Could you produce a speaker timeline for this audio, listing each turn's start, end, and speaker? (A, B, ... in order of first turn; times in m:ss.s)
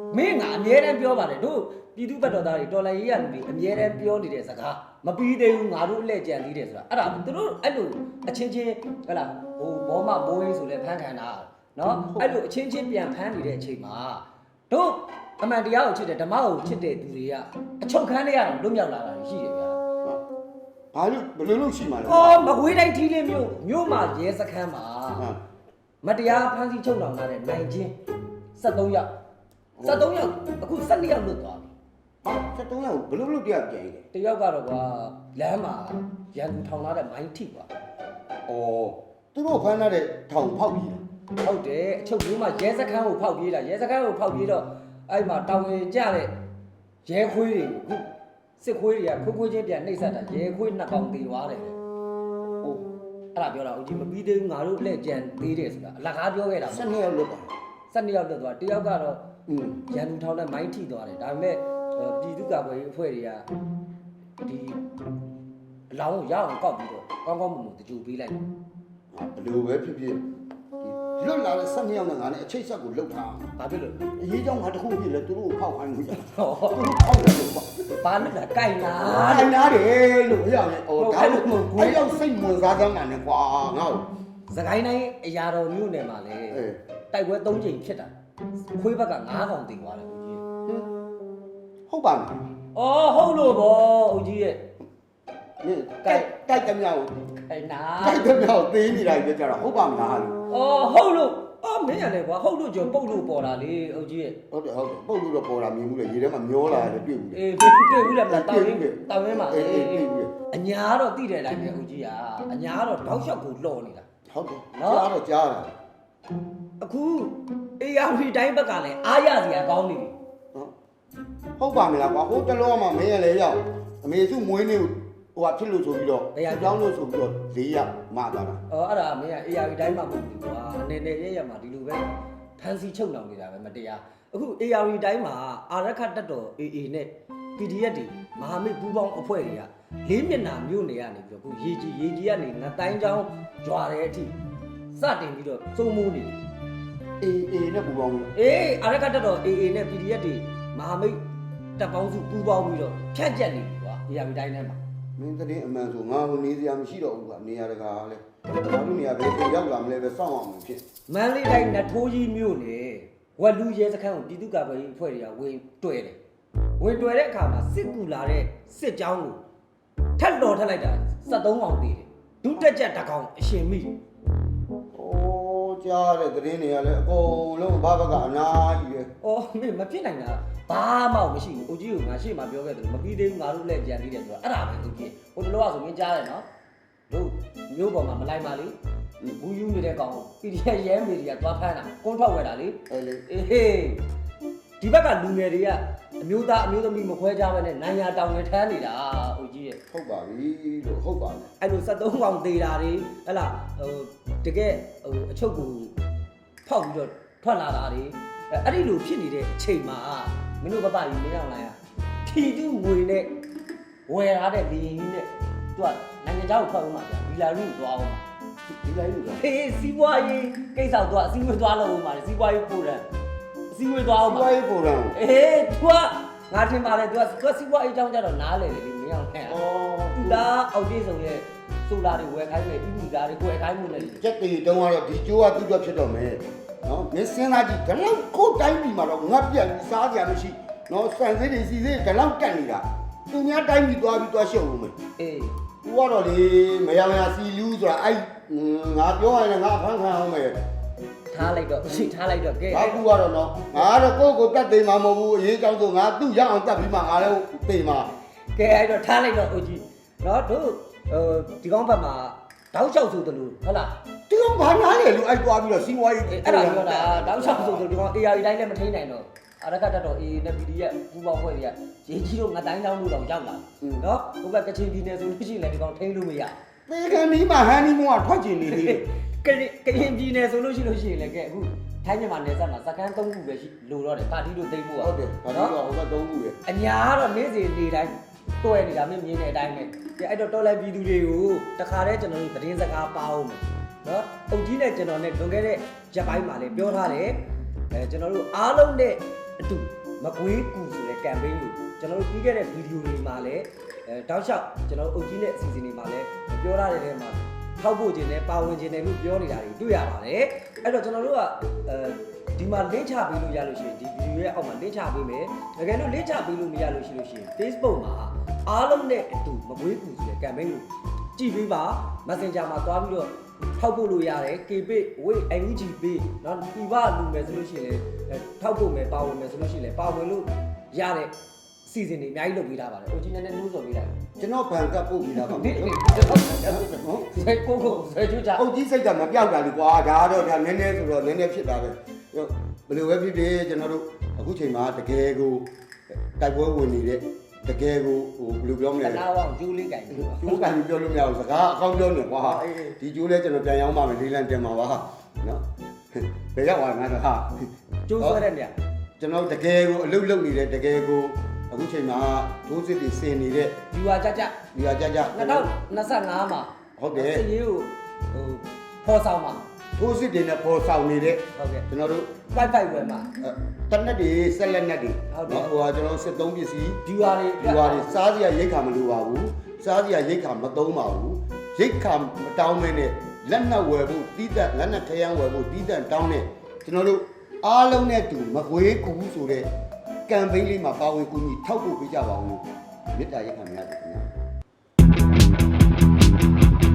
0:00.1-0:19.8 A
0:20.9-0:22.6 B
0:22.1-0:25.2 A
0:26.0-0:28.0 A
0:28.6-0:29.1 A
0:29.8-0:30.3 B
0:29.8-0:31.7 A
0:32.2-0:34.0 B
0:34.1-0:37.7 A
0:38.5-0:41.0 B
0:41.4-0:46.3 A
0:47.0-0:51.8 A
0:53.3-0:56.9 A
0:56.6-0:57.5 B
0:57.9-0:59.2 A
0:59.5-0:59.8 B
0:59.9-1:03.5 A
1:04.4-1:04.8 A
1:05.9-1:08.4 A
1:09.1-1:10.2 B
1:10.8-1:13.5 B
1:13.6-1:14.0 A
1:14.1-1:18.1 B
1:16.2-1:16.9 A
1:18.0-1:19.6 A
1:18.8-1:24.1 B
1:21.0-1:22.1 A
1:24.5-1:28.1 A
1:26.5-1:26.8 B
1:28.7-1:30.4 A
1:31.9-1:32.5 B
1:32.7-1:34.7 A
1:35.6-1:37.2 B
1:37.4-1:38.3 A
1:38.0-1:40.4 B
1:40.5-1:44.4 A
1:44.5-1:50.3 B
1:47.3-1:54.0 A
1:54.3-1:55.7 B
1:54.7-1:55.1 A
1:56.8-2:00.1 A
2:01.6-2:08.6 B
2:06.3-2:06.8 A
2:08.7-2:24.4 A
2:24.9-2:26.4 A
2:27.2-2:28.3 B
2:28.3-2:31.2 A
2:31.8-2:34.8 A
2:35.2-2:40.8 B
2:41.1-2:46.2 A
2:46.8-2:49.4 A
2:50.2-2:54.0 A
2:54.9-2:59.1 B
2:59.2-3:06.4 A
3:07.1-3:08.8 A
3:09.4-3:14.0 A
3:12.9-3:13.3 B
3:14.8-3:19.8 A
3:19.9-3:21.5 B
3:21.6-3:25.9 A
3:26.6-3:33.3 A
3:34.1-3:38.2 A
3:38.8-3:39.4 B
3:39.4-3:43.1 A
3:43.7-3:44.5 A
3:44.2-3:45.2 B
3:45.1-3:49.6 A
3:49.4-3:50.5 B
3:50.2-3:54.2 A
3:54.0-4:05.0 B
4:05.2-4:05.6 A
4:05.8-4:10.6 B
4:11.3-4:13.1 A
4:12.7-4:18.1 B
4:18.5-4:24.0 A
4:24.3-4:27.9 B
4:26.3-4:36.6 A
4:33.8-4:34.1 B
4:36.9-4:39.1 B
4:38.7-4:45.8 A
4:45.0-4:46.6 B
4:46.7-5:31.3 A
5:31.8-5:34.2 A
5:34.4-5:38.0 B
5:35.4-5:38.6 A
5:38.5-5:45.7 B
5:46.4-5:49.2 B
5:49.0-5:50.7 A
5:50.1-5:58.4 B
5:52.4-5:52.9 A
5:58.1-5:58.7 A
5:59.2-6:03.8 B
6:03.9-6:04.6 A
6:04.7-6:05.7 B
6:05.3-6:09.7 A
6:07.0-6:07.4 B
6:10.0-6:12.3 B
6:11.6-6:11.8 A
6:12.5-6:13.3 A
6:13.4-6:17.0 B
6:15.3-6:15.7 A
6:17.0-6:18.1 A
6:17.6-6:29.7 B
6:30.3-6:34.3 B